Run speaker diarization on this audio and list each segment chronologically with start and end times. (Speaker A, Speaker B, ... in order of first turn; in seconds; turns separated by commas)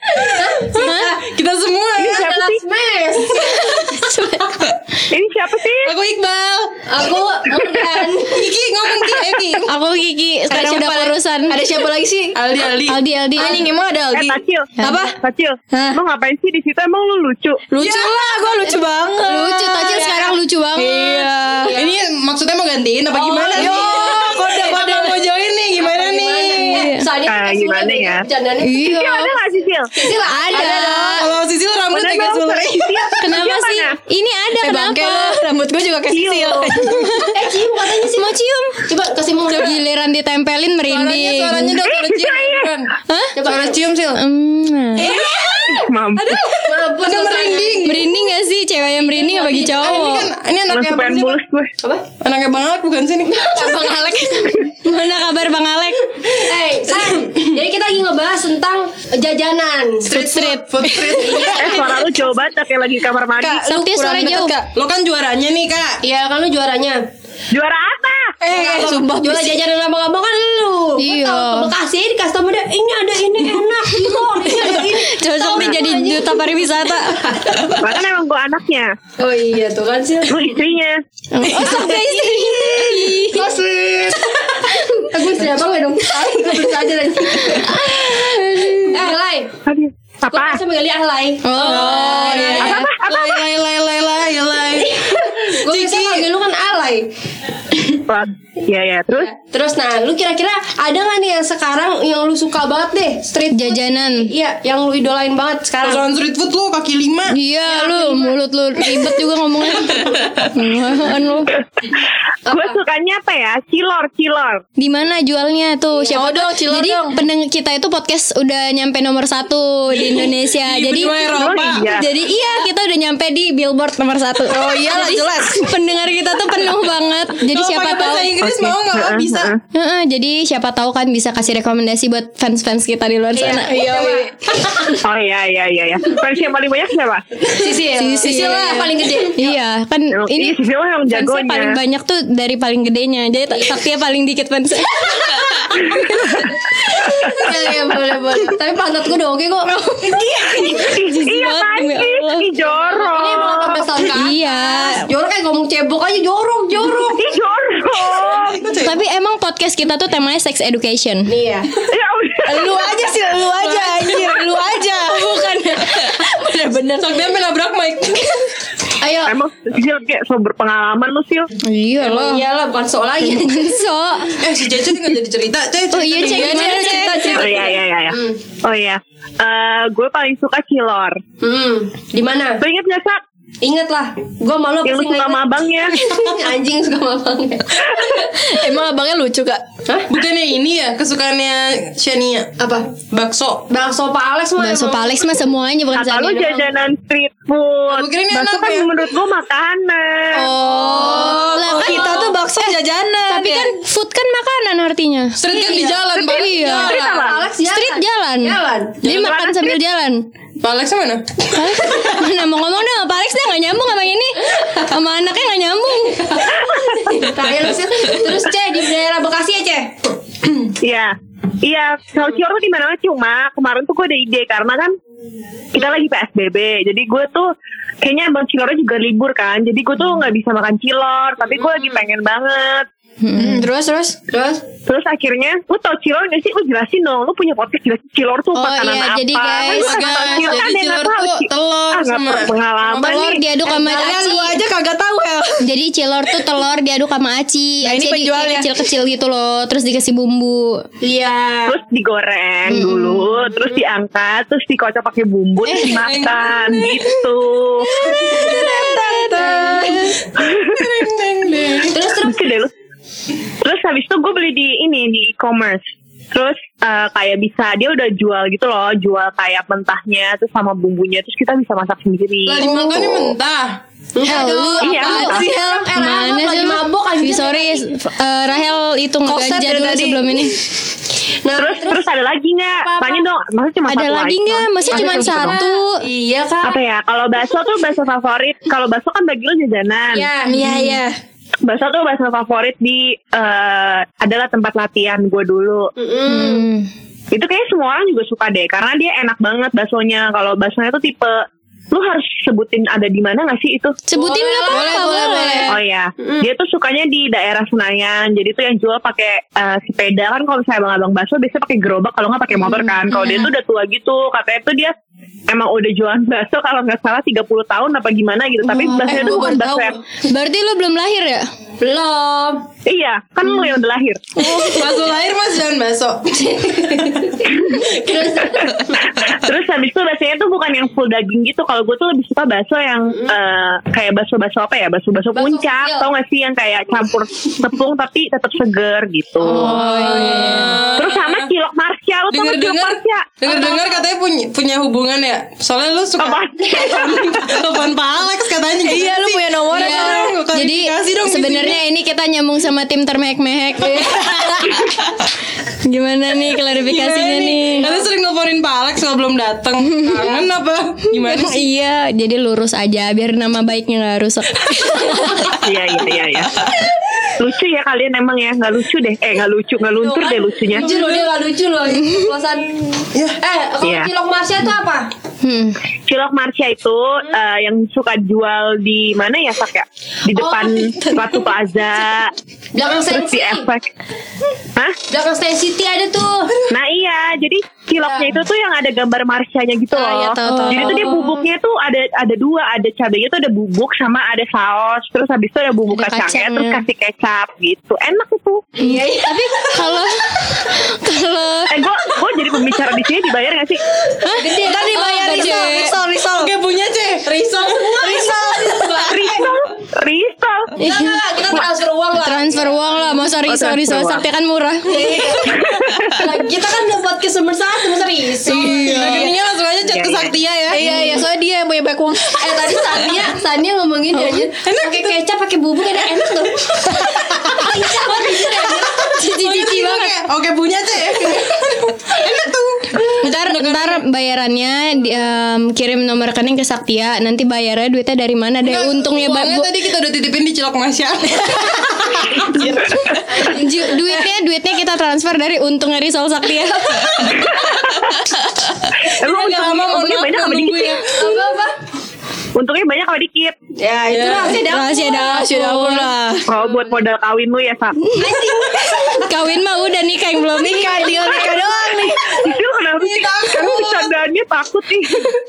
Speaker A: 0.2-1.1, Speaker B: 0.3-2.4, Speaker C: 0.8-1.1, Speaker D: 2.0-2.6, Speaker A: 2.1-4.0, Speaker C: 3.4-4.8, Speaker D: 5.1-5.9, Speaker B: 5.8-6.8, Speaker A: 6.9-8.5, Speaker B: 8.3-9.7, Speaker C: 9.7-11.6, Speaker E: 10.5-12.4, Speaker B: 12.3-13.0, Speaker C: 12.9-13.6, Speaker E: 13.4-15.2, Speaker D: 14.1-17.6, Speaker E: 15.7-16.0, Speaker E: 17.7-20.1, Speaker B: 17.8-18.4, Speaker C: 19.2-21.1, Speaker A: 19.8-20.4, Speaker E: 20.8-21.8, Speaker A: 21.4-21.9, Speaker B: 21.7-26.9, Speaker C: 23.2-23.9, Speaker E: 23.5-24.8, Speaker A: 23.6-24.9, Speaker C: 24.6-25.0, Speaker A: 25.8-28.8, Speaker C: 26.6-27.1, Speaker D: 27.2-28.2, Speaker C: 28.6-29.4, Speaker D: 28.8-29.9, Speaker A: 29.9-31.2, Speaker E: 30.3-31.3, Speaker C: 30.5-31.0, Speaker B: 31.1-33.2, Speaker D: 31.9-33.9, Speaker C: 33.2-35.4, Speaker E: 34.6-37.4, Speaker C: 36.2-37.3, Speaker A: 37.3-38.3, Speaker C: 38.1-38.8, Speaker A: 38.8-39.8, Speaker C: 39.5-41.8, Speaker B: 40.9-44.2, Speaker D: 41.9-42.7, Speaker C: 43.1-43.3, Speaker A: 43.4-43.8, Speaker C: 44.1-45.2, Speaker B: 45.0-45.6, Speaker D: 45.6-46.4, Speaker B: 46.2-48.1, Speaker A: 46.6-47.9, Speaker C: 47.8-50.3, Speaker B: 49.2-51.4, Speaker D: 50.7-51.7, Speaker A: 51.8-52.1, Speaker B: 52.2-53.9, Speaker A: 53.3-54.5, Speaker C: 53.5-56.1, Speaker A: 56.2-60.2, Speaker B: 57.1-57.4, Speaker B: 60.1-62.1, Speaker C: 60.1-61.5, Speaker E: 60.8-61.4, Speaker A: 61.2-62.0, Speaker D: 61.6-63.6, Speaker E: 63.4-64.7, Speaker C: 63.6-64.6, Speaker B: 64.7-66.0, Speaker A: 66.0-67.0, Speaker D: 67.5-68.3, Speaker E: 68.4-69.6, Speaker A: 68.5-77.7, Speaker C: 71.0-71.7, Speaker C: 74.4-77.4, Speaker D: 77.8-79.0, Speaker A: 79.2-80.5, Speaker D: 80.3-81.0, Speaker C: 81.3-83.5, Speaker E: 81.5-83.5, Speaker A: 81.6-81.9, Speaker C: 84.6-84.9, Speaker A: 84.7-87.8, Speaker C: 87.3-89.1, Speaker A: 88.9-89.5, Speaker D: 89.6-90.6, Speaker A: 90.3-92.8, Speaker C: 91.4-92.9, Speaker B: 91.5-96.3, Speaker E: 91.9-92.8, Speaker D: 92.5-93.2, Speaker A: 94.8-97.1, Speaker D: 98.1-99.3, Speaker A: 99.1-106.0, Speaker C: 103.5-104.3, Speaker B: 105.8-107.4, Speaker C: 107.3-111.5, Speaker A: 107.7-108.3, Speaker A: 112.5-112.8, Speaker D: 112.5-114.6, Speaker C: 114.8-128.4, Speaker A: 115.9-116.2, Speaker E: 116.1-117.2, Speaker B: 119.9-122.0, Speaker D: 121.3-122.0, Speaker E: 124.5-125.7, Speaker B: 127.4-129.5, Speaker D: 128.4-129.5, Speaker C: 129.7-134.0, Speaker A: 133.4-134.3, Speaker E: 133.7-134.8, Speaker D: 134.8-137.3, Speaker A: 137.5-139.5, Speaker C: 138.0-146.5, Speaker E: 138.2-138.7, Speaker D: 140.1-141.8, Speaker A: 143.5-143.8, Speaker A: 147.0-150.2, Speaker C: 149.7-152.5, Speaker D: 150.4-153.8, Speaker A: 152.7-157.2, Speaker C: 154.1-155.1, Speaker D: 157.0-158.7, Speaker B: 158.0-159.0, Speaker C: 158.8-161.3, Speaker A: 161.3-161.7, Speaker D: 161.9-162.7, Speaker E: 162.5-167.2, Speaker C: 165.1-166.3, Speaker B: 167.0-168.4, Speaker A: 169.0-169.3, Speaker D: 169.2-171.5, Speaker C: 171.6-172.4, Speaker A: 172.0-173.7, Speaker C: 173.3-174.4, Speaker B: 174.4-176.8, Speaker C: 175.9-177.7, Speaker E: 176.2-177.7, Speaker D: 177.2-181.2, Speaker A: 178.1-178.4, Speaker A: 181.4-182.6, Speaker D: 182.6-183.2, Speaker A: 183.6-188.1, Speaker D: 184.8-185.9, Speaker E: 188.3-189.6, Speaker B: 190.1-192.5, Speaker A: 192.6-192.9, Speaker B: 193.1-193.6, Speaker A: 193.7-195.3, Speaker C: 194.6-196.7, Speaker D: 195.9-200.5, Speaker B: 197.9-198.9, Speaker E: 200.3-203.7, Speaker A: 200.7-201.4, Speaker C: 200.8-202.7, Speaker C: 203.3-206.9, Speaker B: 205.4-207.0, Speaker A: 205.5-206.0, Speaker D: 206.1-207.4, Speaker A: 206.5-209.0, Speaker C: 207.6-210.2, Speaker D: 209.1-209.7, Speaker B: 210.6-211.5, Speaker C: 211.5-216.3, Speaker A: 216.2-220.0, Speaker D: 216.6-217.1, Speaker D: 220.8-224.9, Speaker D: 225.7-232.9, Speaker C: 233.2-233.6, Speaker E: 233.4-234.2, Speaker A: 234.3-234.6, Speaker D: 234.9-243.4, Speaker C: 238.5-240.6, Speaker B: 239.7-243.4, Speaker C: 243.0-244.6, Speaker A: 243.7-244.2, Speaker E: 243.9-245.7, Speaker C: 245.6-250.8, Speaker E: 247.8-248.8, Speaker A: 251.0-251.8, Speaker D: 251.7-257.9, Speaker C: 252.7-253.3, Speaker E: 255.6-256.1, Speaker B: 255.8-257.0, Speaker E: 257.8-260.2, Speaker B: 258.1-258.8, Speaker A: 259.3-260.1, Speaker B: 260.4-262.0, Speaker D: 260.5-260.9, Speaker A: 261.9-262.6, Speaker D: 262.2-262.7, Speaker D: 263.6-265.8, Speaker D: 266.3-272.7, Speaker B: 272.5-273.8, Speaker C: 272.6-273.3, Speaker A: 274.1-277.9, Speaker E: 274.2-275.9, Speaker D: 274.8-275.4, Speaker C: 275.9-280.6, Speaker E: 279.2-280.5, Speaker A: 281.4-282.0, Speaker D: 281.6-285.6, Speaker A: 282.8-283.3, Speaker C: 283.9-286.0, Speaker A: 284.9-286.8, Speaker D: 286.6-290.3, Speaker A: 290.1-290.6, Speaker E: 290.5-291.1, Speaker C: 290.6-291.0, Speaker D: 291.6-295.9, Speaker A: 296.0-296.7, Speaker C: 296.3-296.9, Speaker D: 297.3-301.4, Speaker D: 301.9-304.0, Speaker C: 304.1-305.7, Speaker A: 304.1-305.2, Speaker E: 304.7-305.8, Speaker D: 305.7-314.9, Speaker A: 306.2-306.5, Speaker C: 312.6-313.5, Speaker D: 315.5-320.0, Speaker E: 318.7-320.0, Speaker C: 318.8-319.3, Speaker C: 320.2-321.5, Speaker A: 321.8-322.6, Speaker D: 322.9-324.4, Speaker B: 324.4-327.4, Speaker A: 326.4-329.0, Speaker D: 329.1-339.8, Speaker A: 335.3-336.1, Speaker E: 339.4-340.8, Speaker C: 339.5-340.8, Speaker A: 339.7-340.5, Speaker B: 339.8-341.5, Speaker D: 341.0-343.5, Speaker B: 342.3-351.8, Speaker D: 346.2-347.5, Speaker E: 348.8-350.3, Speaker C: 349.7-355.0, Speaker E: 354.0-354.6, Speaker C: 355.8-357.9, Speaker B: 356.9-361.7, Speaker A: 357.8-358.1, Speaker C: 359.9-360.3, Speaker C: 361.1-365.5, Speaker D: 365.6-366.5, Speaker D: 367.4-370.9, Speaker A: 370.0-375.1, Speaker B: 370.8-371.3, Speaker B: 373.1-373.4, Speaker D: 373.8-374.1, Speaker C: 375.4-375.8, Speaker D: 376.1-382.3, Speaker A: 380.3-381.5, Speaker A: 382.7-383.7, Speaker D: 383.1-383.9, Speaker A: 385.1-386.6, Speaker D: 386.7-398.7, Speaker A: 388.0-388.3, Speaker E: 389.9-391.1, Speaker C: 390.1-391.1, Speaker A: 390.8-391.4, Speaker C: 395.9-396.8, Speaker A: 398.8-399.4, Speaker C: 398.8-401.7, Speaker D: 401.7-403.8, Speaker C: 404.2-405.9, Speaker A: 404.2-405.9, Speaker E: 404.6-406.5, Speaker B: 406.3-409.4, Speaker A: 407.2-409.4, Speaker D: 409.0-410.7, Speaker A: 410.8-413.2, Speaker C: 410.8-411.2, Speaker C: 412.2-415.3, Speaker D: 413.5-414.2, Speaker A: 414.9-415.5, Speaker E: 415.0-415.4, Speaker D: 415.6-416.3, Speaker A: 416.1-419.0, Speaker E: 418.4-419.4, Speaker B: 418.5-420.8, Speaker D: 419.8-420.3, Speaker E: 420.7-422.3, Speaker A: 420.8-421.2, Speaker A: 422.4-429.1, Speaker B: 422.9-423.2, Speaker C: 424.1-424.4, Speaker B: 424.6-425.2, Speaker B: 426.9-427.7, Speaker B: 428.2-434.0, Speaker C: 429.0-430.1, Speaker C: 433.2-439.8, Speaker B: 438.6-443.2, Speaker D: 442.5-443.4, Speaker A: 443.3-444.0, Speaker C: 443.4-447.4, Speaker B: 447.2-447.8, Speaker D: 447.3-448.3, Speaker D: 449.2-451.0, Speaker B: 449.2-451.5, Speaker A: 451.2-451.7, Speaker D: 452.5-453.5, Speaker A: 453.8-456.0, Speaker B: 454.1-454.6, Speaker C: 454.5-456.1, Speaker E: 454.8-456.5, Speaker D: 456.5-458.0, Speaker A: 456.6-457.0, Speaker C: 458.1-461.5, Speaker A: 458.2-459.2, Speaker E: 460.6-462.6, Speaker B: 461.1-461.5, Speaker D: 462.3-465.3, Speaker B: 462.9-464.1